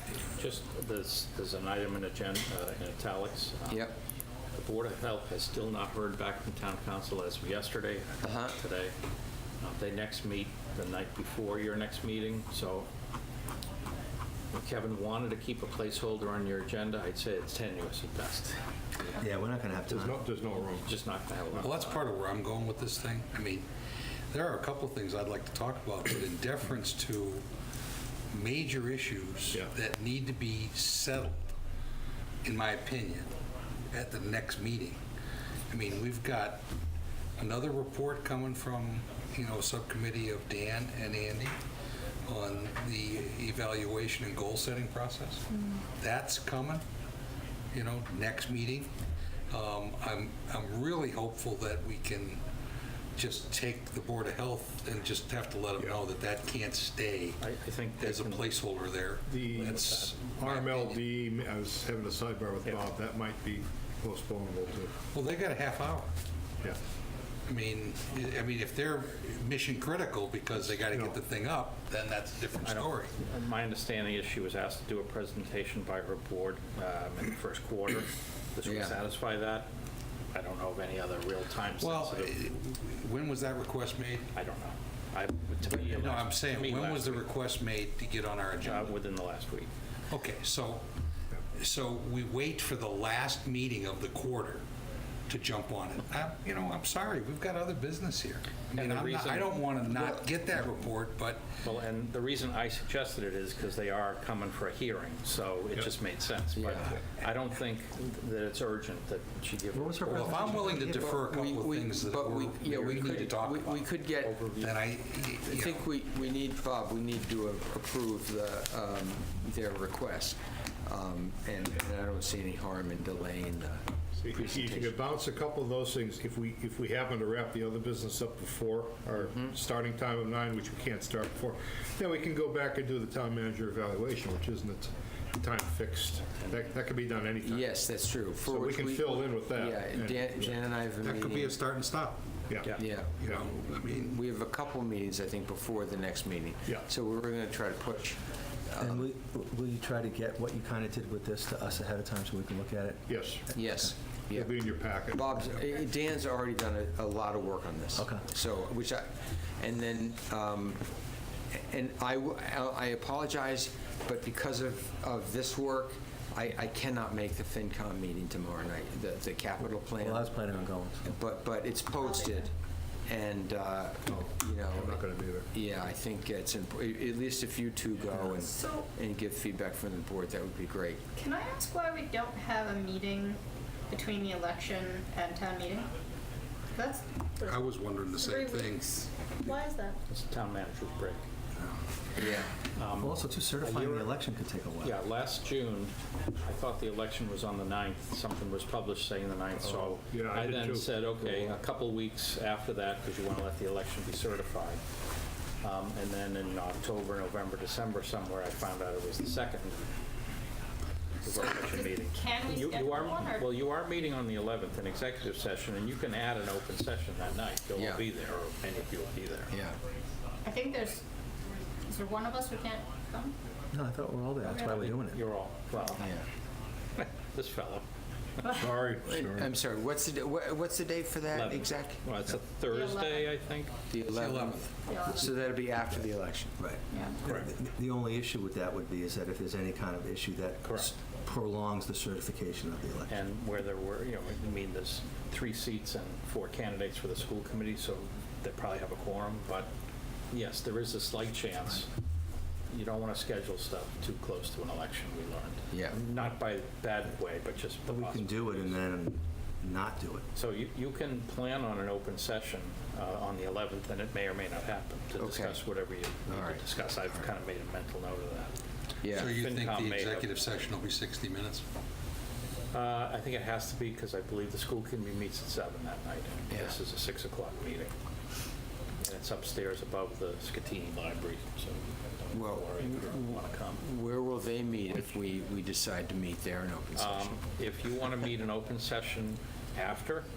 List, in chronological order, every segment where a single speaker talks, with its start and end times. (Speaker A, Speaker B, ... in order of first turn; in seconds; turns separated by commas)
Speaker A: 0.4-3.9, Speaker B: 3.7-3.9, Speaker A: 4.5-8.9, Speaker B: 8.2-8.5, Speaker A: 9.6-12.9, Speaker A: 14.5-18.6, Speaker C: 19.1-20.2, Speaker D: 19.9-21.7, Speaker A: 20.9-22.1, Speaker E: 21.6-23.6, Speaker E: 24.3-27.4, Speaker E: 28.3-31.4, Speaker E: 32.4-33.3, Speaker E: 33.9-35.0, Speaker E: 35.7-36.6, Speaker E: 37.4-41.5, Speaker E: 42.3-45.5, Speaker E: 46.0-46.8, Speaker E: 47.7-48.9, Speaker E: 49.5-52.4, Speaker E: 53.2-57.4, Speaker A: 57.4-58.5, Speaker E: 58.0-61.0, Speaker D: 59.3-64.9, Speaker A: 59.5-60.1, Speaker E: 65.1-66.1, Speaker E: 67.5-73.1, Speaker D: 70.7-71.2, Speaker A: 72.6-79.7, Speaker B: 78.6-79.0, Speaker A: 80.3-82.4, Speaker E: 81.8-84.3, Speaker A: 84.3-87.2, Speaker E: 85.7-88.9, Speaker A: 88.6-89.7, Speaker E: 90.1-90.8, Speaker E: 91.5-94.6, Speaker E: 95.3-101.4, Speaker A: 98.7-99.6, Speaker A: 101.6-110.8, Speaker B: 106.5-106.9, Speaker C: 109.7-110.9, Speaker E: 110.0-113.9, Speaker B: 110.8-114.4, Speaker A: 114.2-114.8, Speaker E: 114.6-115.9, Speaker B: 115.5-125.0, Speaker D: 124.2-140.6, Speaker B: 129.2-129.6, Speaker A: 136.3-136.7, Speaker B: 137.4-141.6, Speaker E: 141.0-142.2, Speaker D: 142.5-143.5, Speaker B: 142.8-148.2, Speaker E: 143.2-144.2, Speaker B: 148.7-149.0, Speaker C: 148.8-153.9, Speaker D: 153.1-153.5, Speaker B: 153.5-154.5, Speaker D: 154.3-155.7, Speaker B: 155.1-160.8, Speaker C: 158.0-158.2, Speaker B: 161.5-170.4, Speaker C: 170.0-171.1, Speaker B: 171.0-172.4, Speaker F: 172.0-172.5, Speaker B: 173.1-181.0, Speaker D: 174.1-175.5, Speaker F: 178.4-178.9, Speaker F: 181.2-183.4, Speaker F: 183.9-185.9, Speaker F: 186.8-187.6, Speaker E: 187.4-188.9, Speaker F: 189.4-190.0, Speaker A: 190.1-191.2, Speaker B: 192.2-192.5, Speaker A: 192.8-194.1, Speaker C: 192.9-195.0, Speaker A: 194.8-204.8, Speaker D: 199.6-201.5, Speaker A: 205.6-209.9, Speaker A: 211.2-219.5, Speaker F: 211.8-213.5, Speaker B: 217.8-218.0, Speaker B: 219.5-219.8, Speaker F: 220.4-221.0, Speaker F: 221.9-223.3, Speaker C: 223.7-225.2, Speaker A: 224.7-226.1, Speaker B: 226.0-226.2, Speaker A: 227.0-227.8, Speaker D: 228.5-229.6, Speaker B: 229.1-232.0, Speaker A: 231.3-233.7, Speaker F: 232.7-233.3, Speaker B: 233.9-236.7, Speaker E: 234.1-234.7, Speaker F: 234.9-235.2, Speaker C: 236.6-243.1, Speaker A: 240.6-240.9, Speaker A: 243.1-249.7, Speaker A: 250.3-251.9, Speaker A: 252.7-258.7, Speaker B: 255.7-256.0, Speaker C: 257.9-260.2, Speaker A: 260.3-268.5, Speaker B: 265.2-265.6, Speaker B: 266.3-267.3, Speaker B: 269.0-269.3, Speaker E: 269.1-271.6, Speaker A: 269.1-270.3, Speaker A: 272.7-277.9, Speaker B: 276.5-276.8, Speaker A: 279.0-283.8, Speaker B: 282.3-287.4, Speaker A: 286.9-290.2